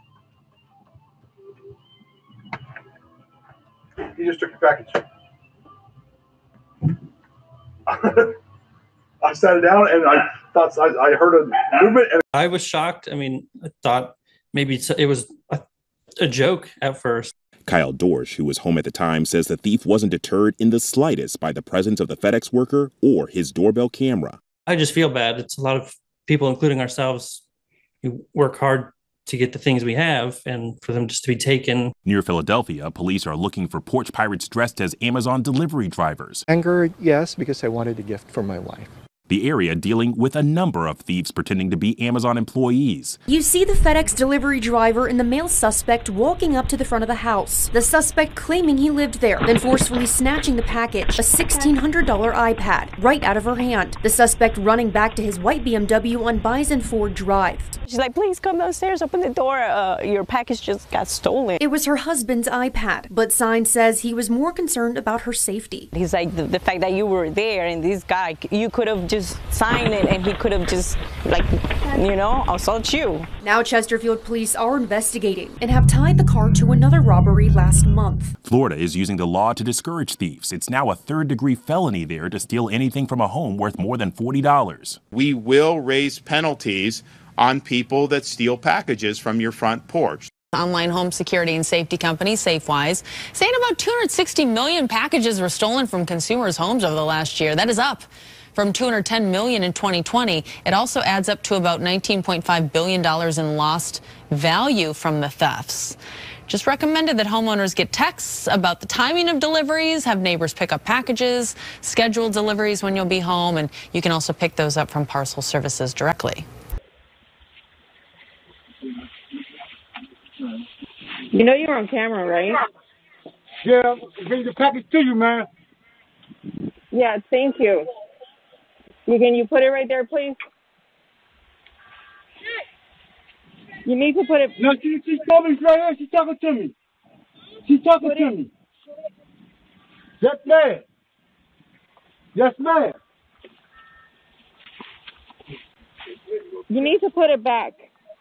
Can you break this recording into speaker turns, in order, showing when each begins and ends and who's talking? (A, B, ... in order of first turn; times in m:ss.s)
0:04.1-0:05.0 A
0:07.9-0:08.4 A
0:09.2-0:12.2 A
0:12.3-0:15.6 B
0:16.2-0:17.3 B
0:17.7-0:24.4 C
0:24.7-0:27.4 B
0:28.0-0:31.9 B
0:32.0-0:36.4 C
0:36.5-0:39.0 D
0:39.3-0:43.2 C
0:43.3-0:57.8 E
0:57.8-1:01.6 F
1:01.6-1:05.9 E
1:05.9-1:13.3 F
1:13.4-1:18.3 E
1:18.4-1:25.0 C
1:25.1-1:30.3 G
1:30.5-1:56.4 H
2:01.3-2:02.6 I
2:03.6-2:05.5 J
2:06.9-2:07.9 I
2:09.0-2:10.4 I
2:13.8-2:14.6 I
2:14.6-2:16.7 J
2:17.6-2:18.5 J
2:18.0-2:18.4 I
2:20.2-2:20.8 J
2:22.3-2:23.0 J
2:26.7-2:27.9 I